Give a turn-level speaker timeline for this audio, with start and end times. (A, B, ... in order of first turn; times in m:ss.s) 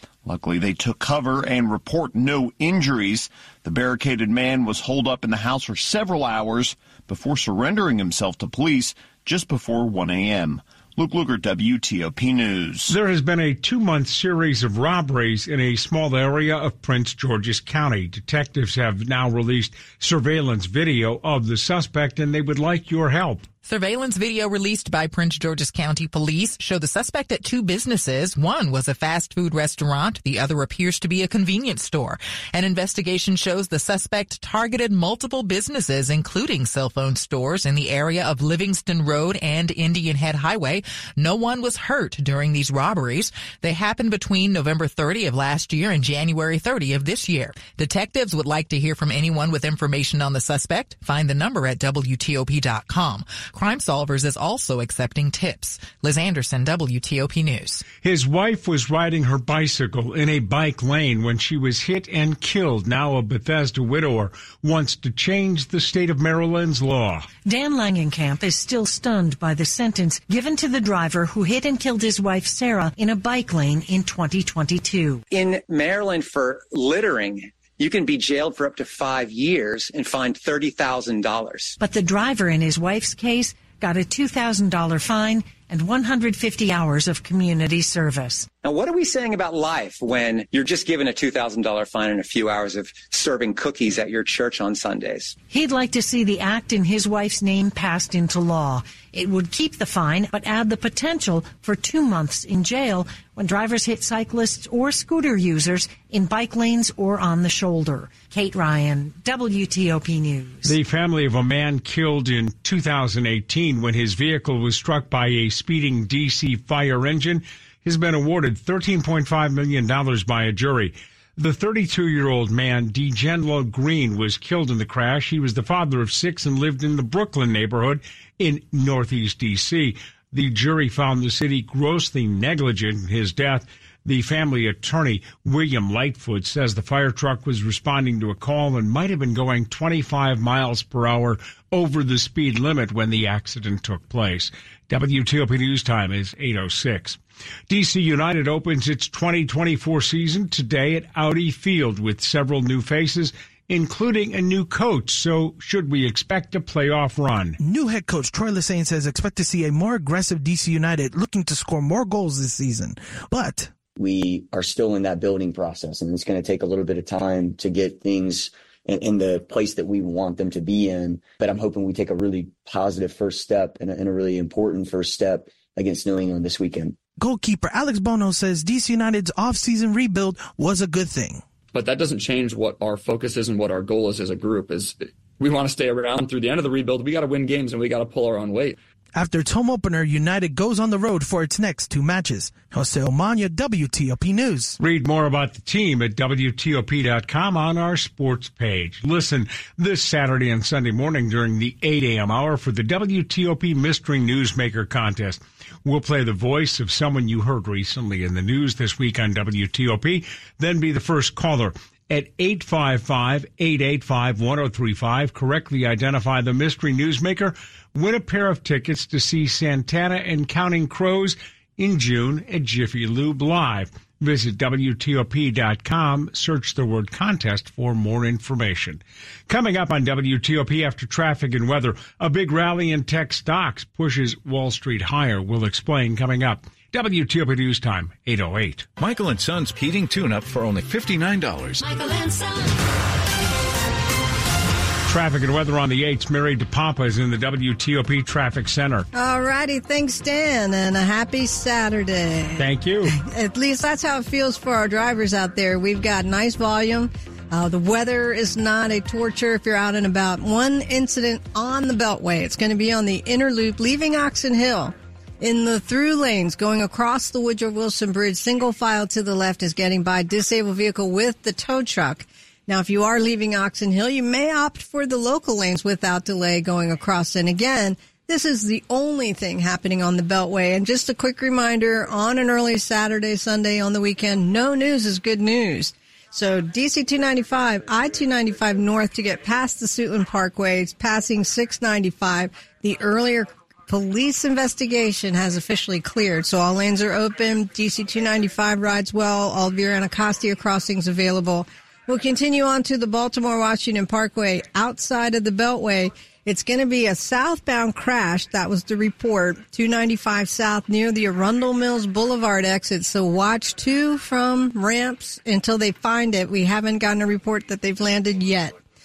0:00.2-0:12.9 A
0:12.9-0:23.4 B
0:23.6-0:57.8 C
0:58.0-1:07.3 B
1:07.5-1:15.2 D
1:15.3-1:21.8 E
1:21.8-1:28.5 D
1:28.6-1:35.4 E
1:35.5-1:50.8 D
1:50.6-2:37.6 B
2:37.6-2:43.7 F
2:44.0-2:57.0 G
2:57.2-3:01.4 F
3:01.8-3:04.9 H
3:05.4-3:08.7 H
3:09.2-3:14.8 F
3:14.8-3:58.9 B
3:59.0-4:01.8 I
4:05.1-4:09.1 B
4:09.1-5:18.8 J
4:12.6-4:13.1 B